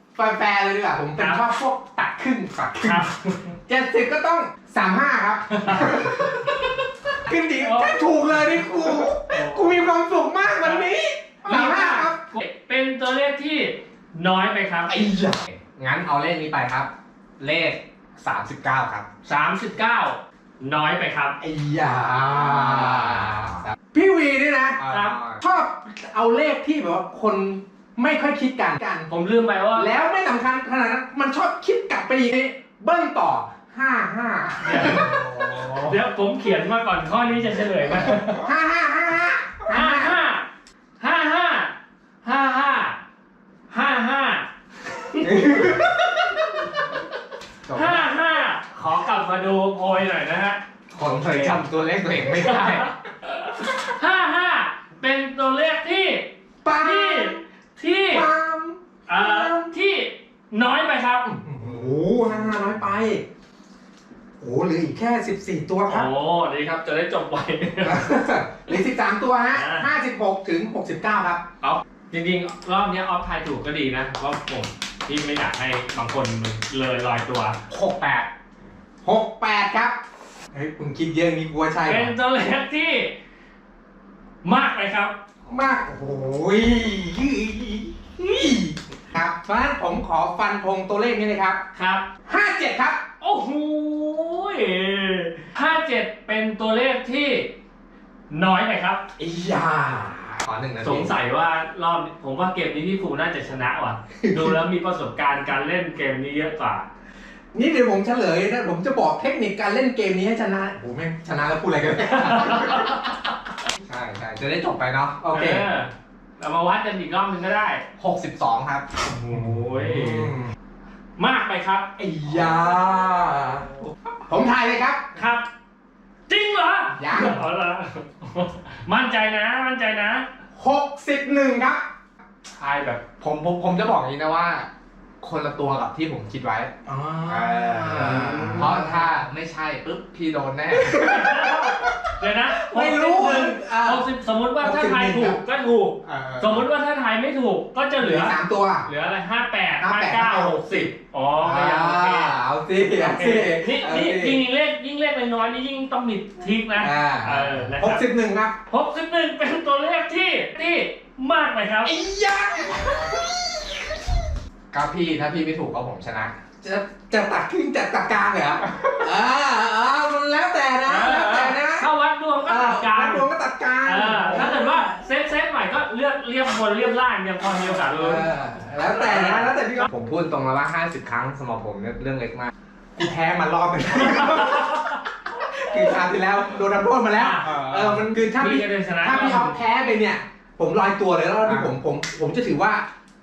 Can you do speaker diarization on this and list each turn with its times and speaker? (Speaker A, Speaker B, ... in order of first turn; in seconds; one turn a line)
Speaker A: 0.2-3.0
Speaker B: 1.2-1.4
Speaker B: 2.8-3.4
Speaker A: 3.7-12.2
Speaker B: 5.5-6.3
Speaker B: 7.6-8.0
Speaker B: 9.3-9.8
Speaker B: 11.4-15.0
Speaker A: 14.9-15.5
Speaker C: 15.7-19.1
Speaker B: 19.2-21.4
Speaker A: 21.4-24.8
Speaker C: 22.3-23.6
Speaker C: 24.8-25.4
Speaker B: 24.9-25.2
Speaker A: 25.4-29.1
Speaker B: 29.1-29.9
Speaker A: 29.8-35.1
Speaker B: 34.6-38.5
Speaker C: 34.9-35.7
Speaker A: 38.1-40.2
Speaker B: 39.7-40.5
Speaker B: 41.0-41.7
Speaker B: 42.2-43.0
Speaker B: 43.7-45.8
Speaker A: 45.2-46.1
Speaker C: 47.7-48.0
Speaker B: 47.7-51.6
Speaker C: 50.9-52.9
Speaker A: 52.2-52.6
Speaker B: 52.4-58.3
Speaker A: 56.6-57.4
Speaker A: 58.1-59.7
Speaker B: 59.1-61.3
Speaker A: 61.3-63.2
Speaker A: 64.4-66.1
Speaker B: 65.9-68.1
Speaker A: 67.8-71.5
Speaker B: 69.5-69.9
Speaker B: 72.1-77.6
Speaker C: 77.7-78.3
Speaker A: 79.0-80.0
Speaker A: 80.5-82.1
Speaker B: 81.8-83.1
Speaker B: 84.4-85.1
Speaker A: 85.5-91.6
Speaker B: 91.7-92.1
Speaker A: 92.3-93.0
Speaker B: 93.2-97.5
Speaker B: 98.3-99.0
Speaker A: 99.2-100.5
Speaker C: 100.5-101.1
Speaker B: 100.8-106.9
Speaker A: 104.2-104.6
Speaker A: 107.5-113.1
Speaker B: 112.5-113.0
Speaker C: 113.8-115.2
Speaker A: 115.2-115.7
Speaker B: 115.3-117.8
Speaker C: 118.0-118.9
Speaker B: 119.0-120.4
Speaker A: 120.0-120.5
Speaker B: 121.2-121.9
Speaker A: 122.0-123.7
Speaker A: 124.3-125.0
Speaker B: 125.2-125.5
Speaker B: 126.3-130.3
Speaker A: 127.0-127.4
Speaker A: 130.6-131.8
Speaker C: 132.6-134.7
Speaker C: 135.2-136.7
Speaker A: 136.9-139.0
Speaker C: 137.3-141.1
Speaker B: 138.3-138.7
Speaker A: 140.9-141.9
Speaker B: 141.0-152.4
Speaker A: 142.5-144.1
Speaker A: 144.6-145.4
Speaker C: 146.1-146.7
Speaker A: 148.0-148.9
Speaker A: 149.8-154.4
Speaker B: 152.9-158.0
Speaker A: 156.8-158.6
Speaker B: 158.7-161.9
Speaker A: 161.8-164.0
Speaker C: 164.7-166.4
Speaker A: 166.6-171.9
Speaker B: 170.9-173.3
Speaker A: 172.4-174.9
Speaker B: 173.8-178.3
Speaker A: 177.8-179.9
Speaker B: 178.8-179.4
Speaker C: 179.1-182.5
Speaker A: 183.0-184.7
Speaker A: 185.3-192.8
Speaker B: 187.2-187.6
Speaker C: 187.5-188.0
Speaker B: 188.2-189.6
Speaker C: 191.4-191.7